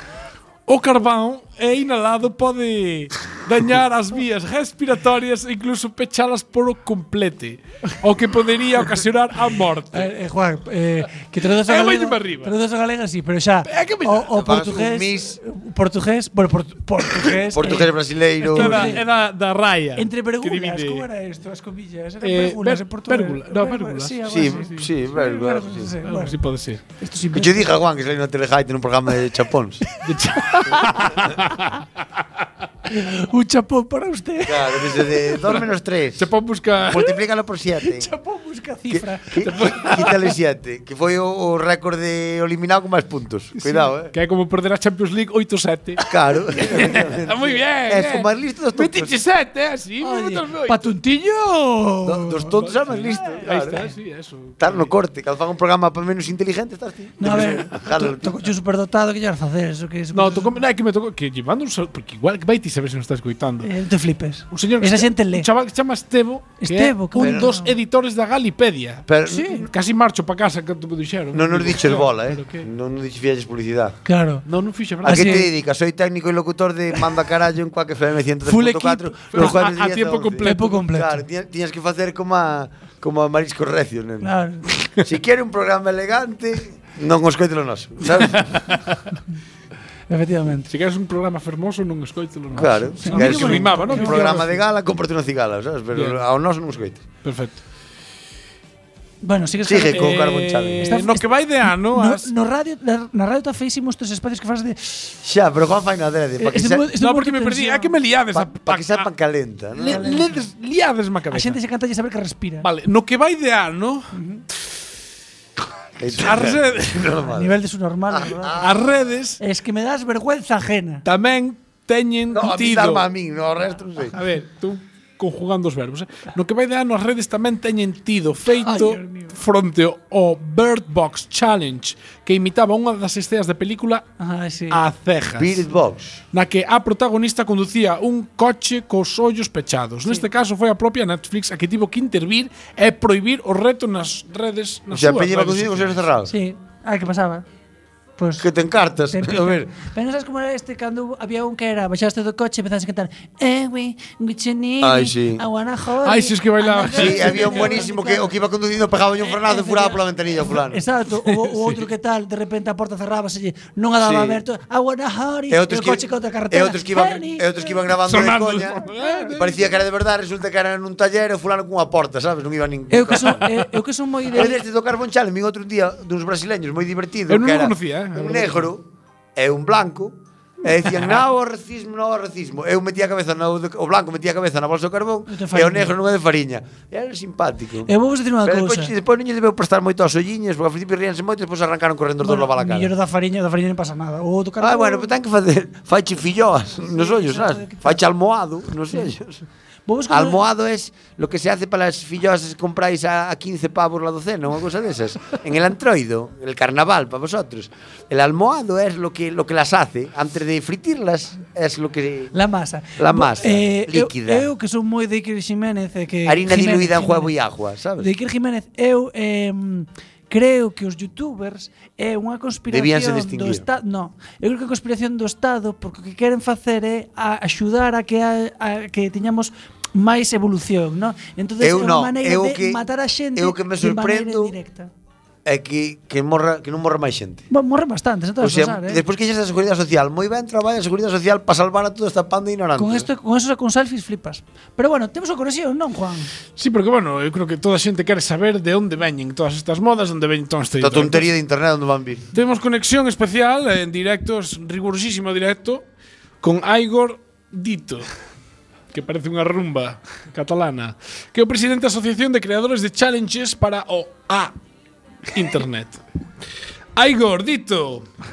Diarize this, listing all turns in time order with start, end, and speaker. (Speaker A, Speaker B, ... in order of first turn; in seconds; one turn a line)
Speaker A: 0.7-10.1
Speaker B: 9.9-17.9
Speaker A: 11.4-12.5
Speaker A: 13.7-14.3
Speaker C: 14.3-15.4
Speaker C: 17.5-19.0
Speaker B: 18.4-19.0
Speaker A: 18.5-21.0
Speaker B: 19.9-26.4
Speaker A: 22.2-24.9
Speaker C: 24.2-25.9
Speaker A: 26.0-26.8
Speaker B: 26.9-27.7
Speaker C: 27.3-29.8
Speaker A: 30.0-31.8
Speaker B: 30.5-31.0
Speaker B: 32.9-35.3
Speaker C: 34.4-36.3
Speaker A: 36.2-37.1
Speaker C: 36.8-38.1
Speaker B: 37.8-39.7
Speaker C: 38.9-44.1
Speaker A: 39.4-40.2
Speaker A: 44.1-46.0
Speaker C: 46.0-49.2
Speaker A: 46.6-50.9
Speaker B: 50.0-52.6
Speaker C: 52.0-53.9
Speaker A: 52.6-54.9
Speaker C: 54.6-58.4
Speaker B: 57.2-60.6
Speaker A: 60.1-63.7
Speaker B: 63.6-65.5
Speaker A: 64.5-72.6
Speaker B: 66.6-67.7
Speaker C: 67.2-67.5
Speaker C: 69.1-69.7
Speaker B: 69.3-69.7
Speaker C: 71.3-74.0
Speaker B: 74.0-74.4
Speaker A: 74.5-75.5
Speaker B: 75.0-75.5
Speaker C: 75.0-84.3
Speaker B: 78.5-79.5
Speaker A: 79.3-80.8
Speaker B: 80.4-81.2
Speaker B: 84.2-84.7
Speaker C: 84.9-88.6
Speaker A: 88.2-89.0
Speaker B: 90.1-90.7
Speaker A: 90.7-94.6
Speaker C: 92.5-97.0
Speaker B: 93.0-94.4
Speaker A: 95.9-96.2
Speaker A: 97.2-97.6
Speaker B: 99.2-100.2
Speaker C: 99.6-100.9
Speaker A: 99.9-102.3
Speaker B: 100.8-105.1
Speaker C: 105.2-106.8
Speaker B: 106.4-107.9
Speaker A: 107.0-109.1
Speaker C: 108.3-110.2
Speaker A: 109.8-111.6
Speaker B: 109.8-110.3
Speaker B: 111.3-112.7
Speaker A: 112.6-114.1
Speaker B: 114.1-114.4
Speaker C: 116.0-117.6
Speaker A: 116.2-117.1
Speaker B: 117.3-118.6
Speaker C: 118.1-119.0
Speaker A: 118.6-119.4
Speaker B: 119.4-121.0
Speaker A: 121.0-123.0
Speaker C: 122.3-124.2
Speaker A: 124.1-134.0
Speaker B: 128.6-129.3
Speaker B: 134.2-134.8
Speaker A: 134.7-135.6
Speaker C: 135.4-136.2
Speaker A: 136.3-146.0
Speaker C: 144.9-146.3
Speaker B: 146.3-147.4
Speaker B: 148.2-148.4
Speaker C: 148.4-149.7
Speaker B: 149.1-158.3
Speaker C: 154.8-155.4
Speaker A: 156.0-157.8
Speaker C: 156.9-160.8
Speaker B: 159.2-167.9
Speaker A: 161.2-161.8
Speaker C: 164.0-164.4
Speaker C: 165.5-168.8
Speaker A: 168.1-169.6
Speaker B: 168.8-169.3
Speaker C: 169.3-173.5
Speaker B: 172.9-174.6
Speaker C: 174.3-178.8
Speaker A: 177.3-178.7
Speaker C: 179.3-187.9
Speaker B: 185.3-185.9
Speaker B: 187.9-188.9
Speaker C: 188.4-192.9
Speaker B: 192.2-195.1
Speaker C: 194.6-199.4
Speaker B: 196.8-198.0
Speaker B: 199.9-200.4
Speaker C: 200.1-212.3
Speaker B: 212.3-217.3
Speaker C: 213.0-214.5
Speaker C: 216.2-218.1
Speaker B: 218.0-234.9
Speaker C: 222.7-223.6
Speaker C: 231.6-234.5
Speaker C: 235.4-237.4
Speaker B: 237.5-239.0
Speaker C: 238.4-243.1
Speaker B: 242.8-246.3
Speaker A: 246.6-251.3
Speaker C: 250.8-252.3
Speaker A: 252.3-255.8
Speaker A: 256.4-258.1
Speaker A: 258.9-264.5
Speaker A: 265.3-266.0
Speaker A: 266.9-268.1